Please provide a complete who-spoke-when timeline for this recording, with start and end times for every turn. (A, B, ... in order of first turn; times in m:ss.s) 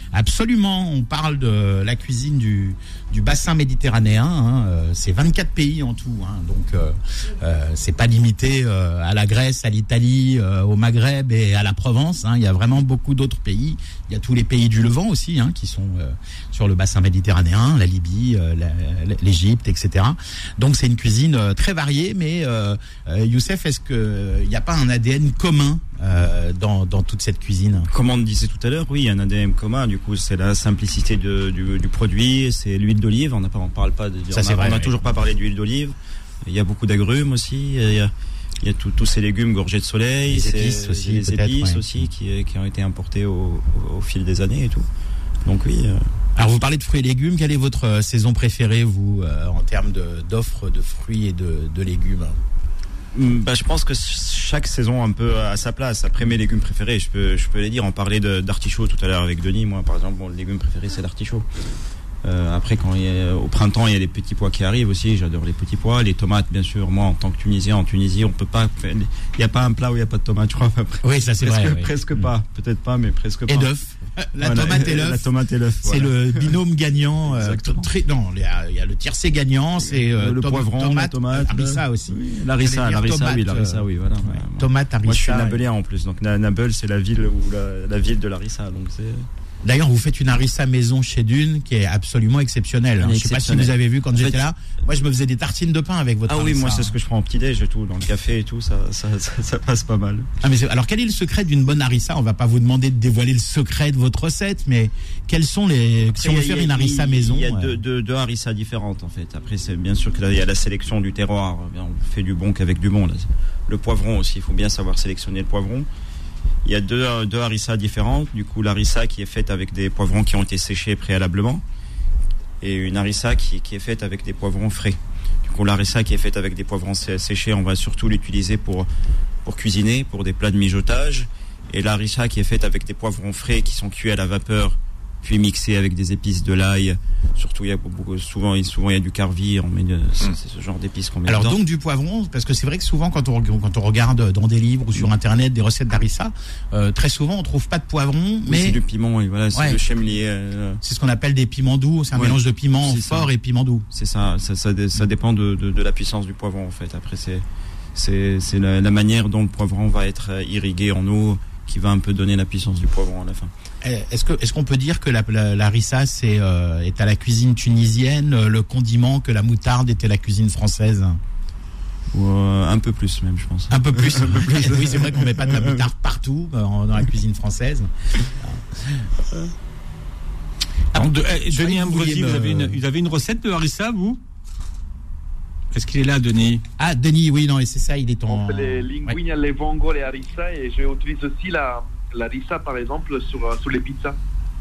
0:00.1-0:27.9 A
0:27.9-0:44.9 B
0:34.3-0:34.9 A
0:40.3-0:41.8 A
0:45.4-0:46.0 B
0:46.4-0:52.3 A
0:53.1-1:01.4 B
1:02.2-1:13.7 B
1:11.0-1:11.9 A
1:13.5-1:15.3 A
1:14.4-1:16.6 B
1:15.8-1:25.6 A
1:17.3-1:17.9 B
1:20.0-1:29.2 B
1:29.6-1:36.9 A
1:33.0-1:34.4 B
1:36.3-1:40.3 B
1:40.4-1:47.8 A
1:46.1-1:55.9 B
1:56.6-2:01.6 B
2:02.6-2:08.9 B
2:09.4-2:21.6 B
2:21.3-2:28.8 A
2:28.5-2:30.8 B
2:29.5-2:29.8 A
2:30.8-2:33.8 A
2:32.2-2:33.3 B
2:33.9-2:37.4 B
2:38.0-2:43.5 B
2:43.8-2:51.2 A
2:52.1-2:55.8 B
2:53.7-2:59.1 A
3:00.9-3:02.8 A
3:00.9-3:04.2 C
3:05.7-3:06.6 C
3:06.8-3:09.2 A
3:08.3-3:14.2 D